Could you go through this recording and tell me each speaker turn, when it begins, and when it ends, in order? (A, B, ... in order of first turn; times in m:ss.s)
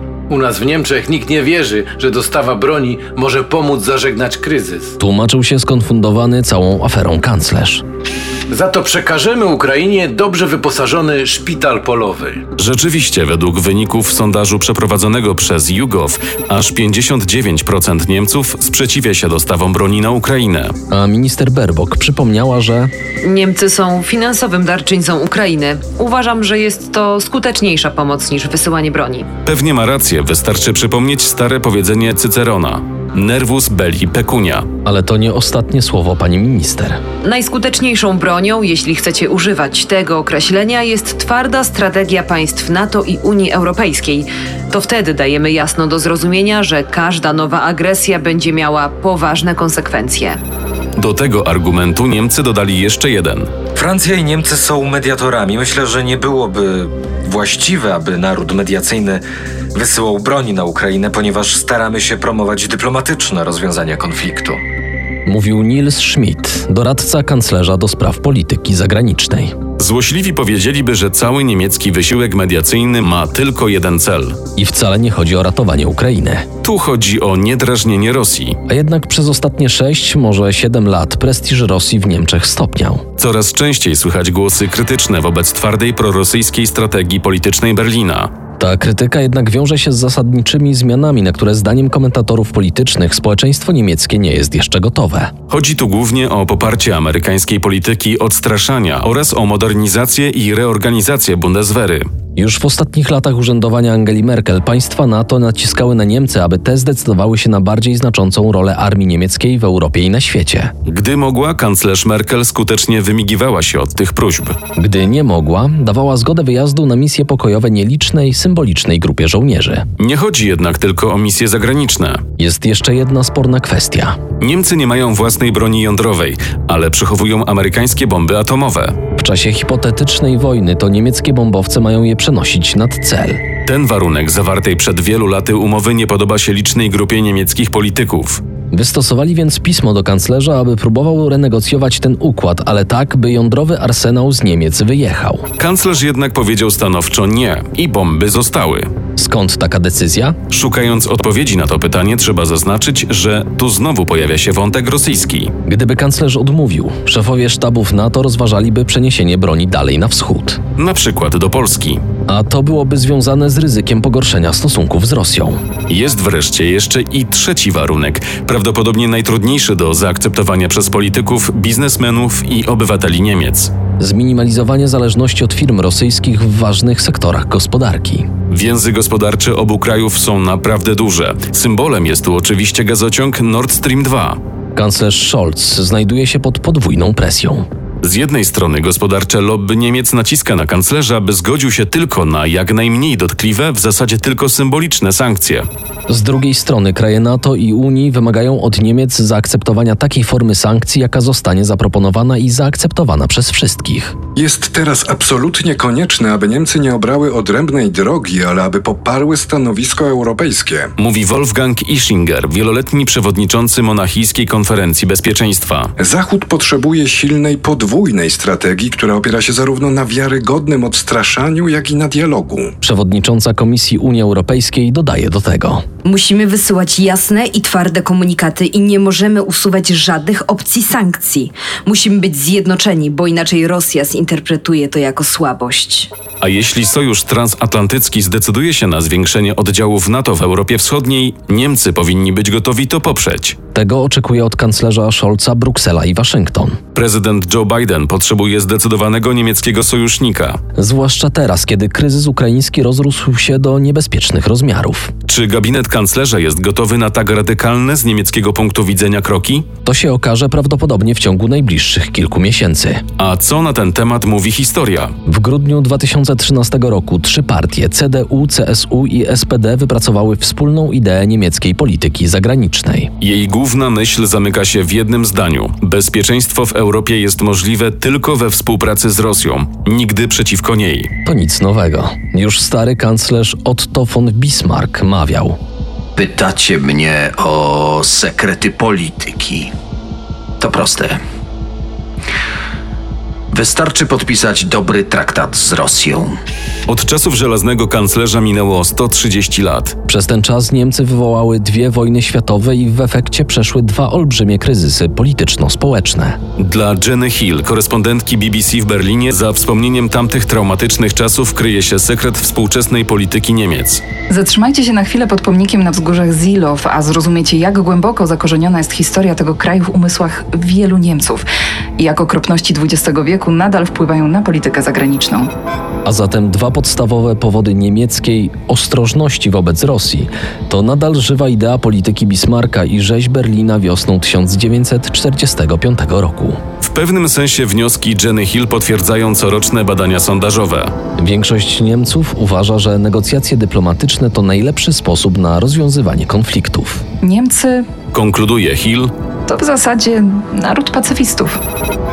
0:00.3-0:04.9 A
0:05.0-0:07.8 B
0:08.5-0:12.4 A
0:12.6-0:20.7 C
0:20.9-0:22.9 B
0:23.3-0:29.2 D
0:29.4-0:34.7 C
0:34.8-0:37.0 B
0:37.3-0:44.2 D
0:45.0-0:50.4 D
0:51.0-0:53.5 C
0:53.7-1:04.6 E
1:05.2-1:09.5 B
1:09.8-1:14.4 C
1:14.6-1:16.4 B
1:16.6-1:18.6 C
1:18.7-1:23.0 B
1:23.2-1:28.3 C
1:28.6-1:35.3 B
1:35.5-1:42.1 C
1:42.4-1:50.7 B
1:50.8-1:54.6 C
1:54.8-1:59.8 B
2:00.0-2:02.2 C
2:02.4-2:04.2 B
2:04.4-2:09.0 C
2:09.2-2:13.4 B
2:13.6-2:18.4 C
2:18.7-2:25.5 B
2:25.6-2:28.9 C
2:29.2-2:30.4 B
2:30.5-2:35.5 C
2:35.6-2:40.6 B
2:40.8-2:42.0 C
2:42.3-2:45.6 B
2:45.9-2:53.7 C
2:54.0-2:58.3 B
2:58.5-3:04.4 C
3:04.7-3:07.6 B
3:08.0-3:15.6 C
3:16.1-3:24.2 B
3:24.4-3:30.9 F
3:31.0-3:35.9 C
3:36.0-3:42.7 F
3:42.8-3:45.8 B
3:46.0-3:56.1 G
3:56.4-4:03.6 C
4:03.7-4:06.8 B
4:06.9-4:10.6 C
4:10.8-4:15.1 B
4:15.2-4:19.7 C
4:19.8-4:23.0 B
4:23.2-4:25.1 C
4:25.3-4:33.1 B
4:33.2-4:41.1 C
4:41.2-4:45.6 B
4:46.2-4:49.7 H
4:50.6-4:51.2 H
4:53.5-4:56.4 H
4:56.9-5:00.0 C
5:00.1-5:06.4 B
5:06.6-5:14.0 C
5:14.3-5:21.4 I
5:22.0-5:25.5 I
5:26.0-5:36.6 B
5:36.8-5:40.9 C
5:41.2-5:47.0 B
5:47.2-5:47.8 I
5:48.1-5:49.1 C
5:49.5-5:51.6 I